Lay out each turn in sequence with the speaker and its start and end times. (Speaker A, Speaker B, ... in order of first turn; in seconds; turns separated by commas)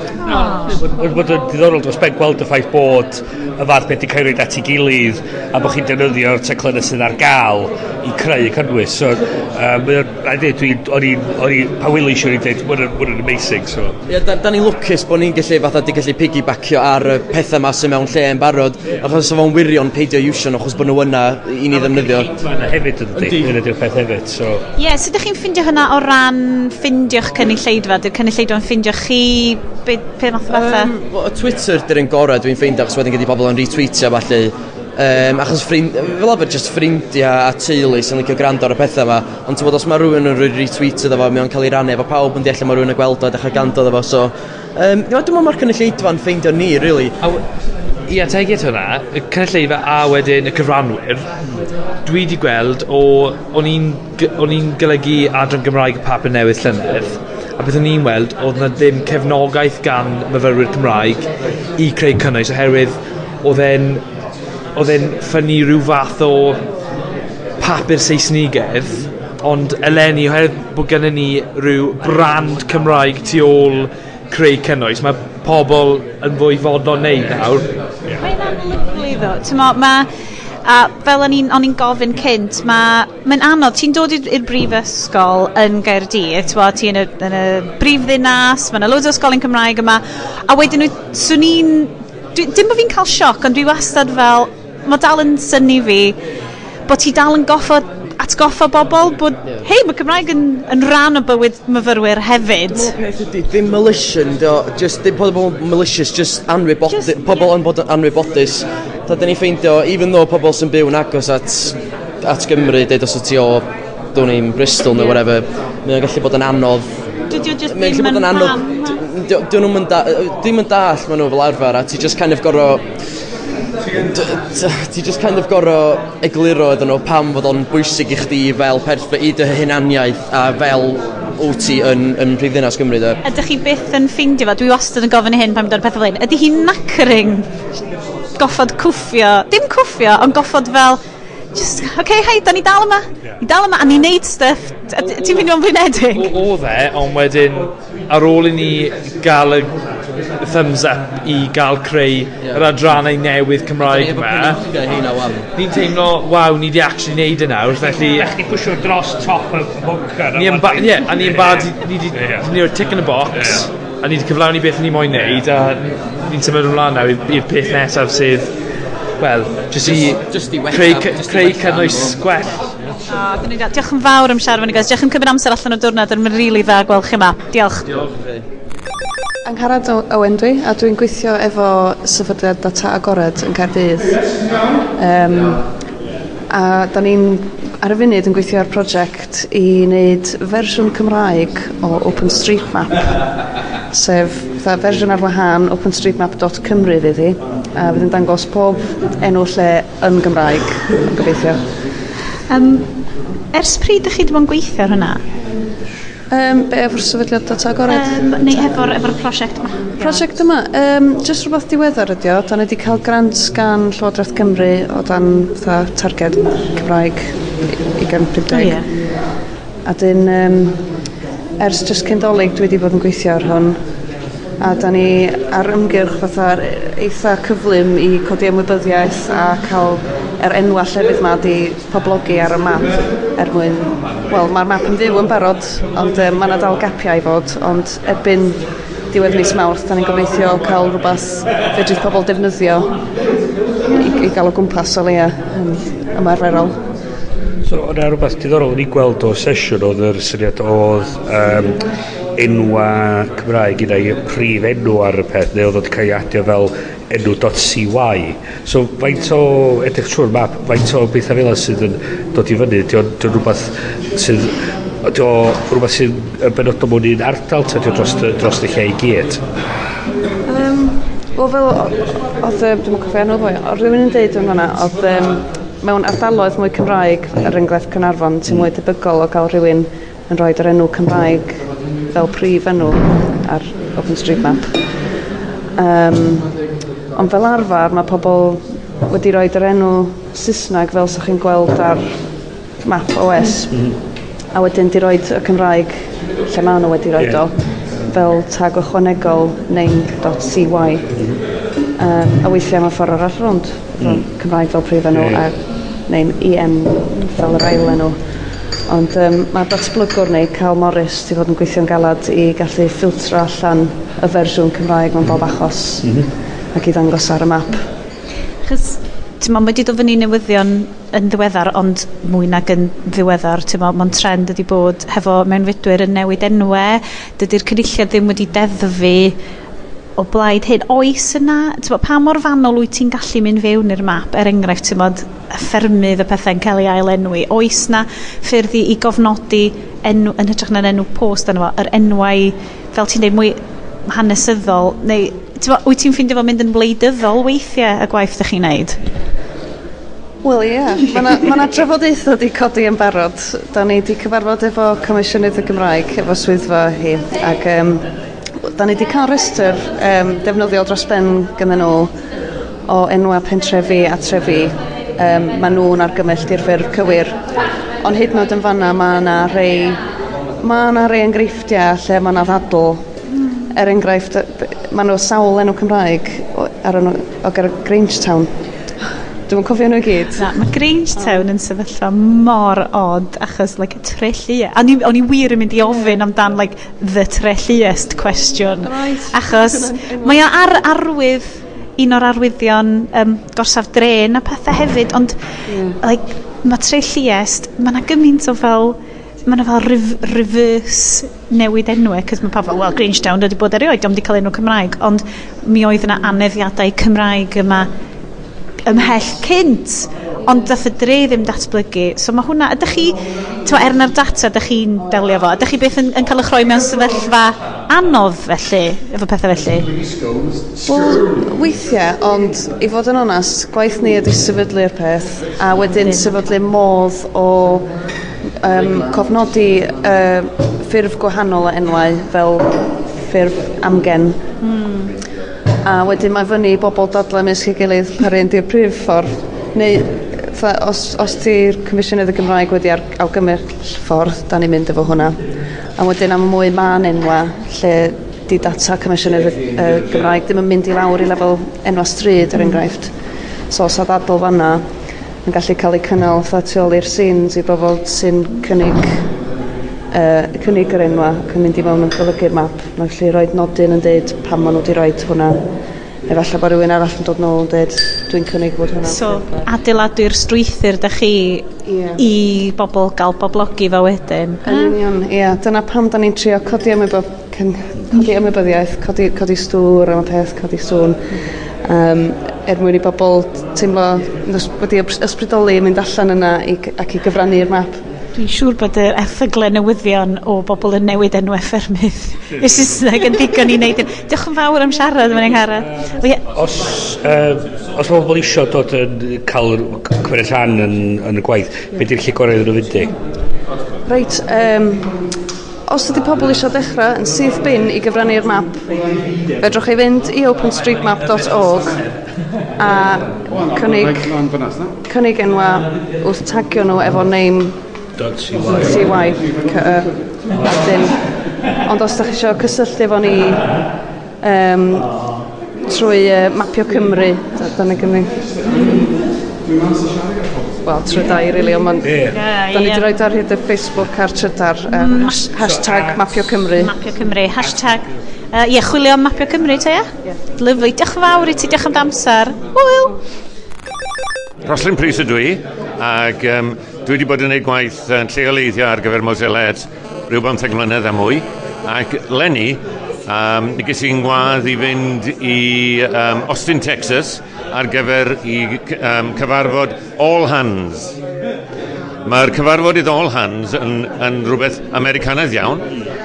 Speaker A: 0.3-13.9, Speaker B: 0.3-0.7, Speaker C: 14.1-22.3, Speaker A: 21.7-24.6, Speaker C: 23.1-23.5, Speaker B: 24.8-30.9, Speaker C: 30.5-47.1, Speaker D: 48.1-51.3, Speaker D: 52.0-64.0, Speaker D: 64.7-66.6, Speaker D: 67.6-77.7, Speaker B: 78.2-80.1, Speaker B: 80.6-96.2, Speaker B: 96.9-102.9, Speaker C: 102.7-116.9, Speaker B: 107.0-107.5, Speaker B: 117.3-119.0, Speaker C: 117.7-122.9, Speaker C: 123.9-133.2, Speaker B: 133.2-137.5, Speaker B: 138.4-141.0, Speaker B: 141.5-146.3, Speaker D: 145.0-145.5, Speaker D: 146.0-149.8, Speaker D: 150.4-154.6, Speaker C: 152.4-152.9, Speaker C: 153.8-155.5, Speaker D: 155.5-158.3, Speaker A: 158.0-162.5, Speaker D: 160.3-168.5, Speaker A: 163.3-163.6, Speaker D: 169.2-172.6, Speaker C: 169.8-172.2, Speaker B: 173.1-177.9, Speaker C: 177.8-178.4, Speaker E: 179.4-184.4, Speaker E: 184.9-185.6, Speaker E: 186.5-193.4, Speaker E: 193.9-201.6, Speaker B: 202.5-202.9, Speaker B: 203.5-205.2, Speaker E: 206.3-209.0, Speaker B: 207.9-210.3, Speaker E: 210.0-219.0, Speaker B: 218.5-218.8, Speaker E: 219.8-220.9, Speaker E: 221.6-223.8, Speaker E: 224.6-243.0, Speaker E: 243.9-246.8, Speaker A: 247.6-251.8, Speaker A: 252.3-269.4, Speaker E: 270.4-284.8, Speaker E: 285.8-286.6, Speaker E: 287.1-293.9, Speaker E: 294.5-301.4, Speaker A: 297.2-297.4, Speaker A: 301.1-301.4, Speaker E: 301.9-308.2, Speaker A: 304.0-304.3, Speaker A: 305.1-305.4, Speaker E: 308.8-316.2, Speaker E: 316.7-317.8, Speaker B: 318.6-329.4, Speaker B: 330.2-349.0, Speaker E: 350.4-358.1, Speaker E: 358.6-362.1, Speaker E: 362.9-367.4, Speaker E: 368.0-370.0, Speaker E: 370.6-373.1, Speaker E: 373.7-378.5, Speaker E: 379.5-380.5, Speaker B: 380.4-407.9, Speaker E: 381.1-381.4, Speaker E: 385.9-386.2, Speaker E: 388.8-390.8, Speaker E: 395.7-396.0, Speaker B: 408.8-419.9, Speaker E: 420.8-427.9, Speaker B: 426.0-426.5, Speaker E: 428.6-434.4, Speaker B: 434.6-435.1, Speaker E: 435.8-445.4, Speaker E: 446.0-453.1, Speaker E: 453.7-454.8, Speaker E: 455.4-459.3, Speaker E: 460.1-465.6, Speaker E: 466.3-469.7, Speaker B: 469.0-474.9, Speaker E: 471.9-472.2, Speaker E: 474.6-488.0, Speaker B: 488.3-496.4, Speaker A: 496.5-503.1, Speaker E: 504.1-505.1, Speaker E: 505.9-508.8, Speaker E: 509.6-512.0, Speaker E: 512.8-517.8, Speaker A: 518.2-519.1, Speaker E: 518.7-521.2, Speaker E: 521.8-523.8, Speaker E: 524.4-525.1, Speaker E: 525.9-528.5, Speaker E: 530.8-536.9, Speaker A: 532.0-532.3, Speaker B: 532.3-533.1, Speaker B: 534.9-535.6, Speaker A: 535.6-536.2, Speaker B: 536.7-543.1, Speaker F: 544.6-561.1, Speaker F: 562.2-565.9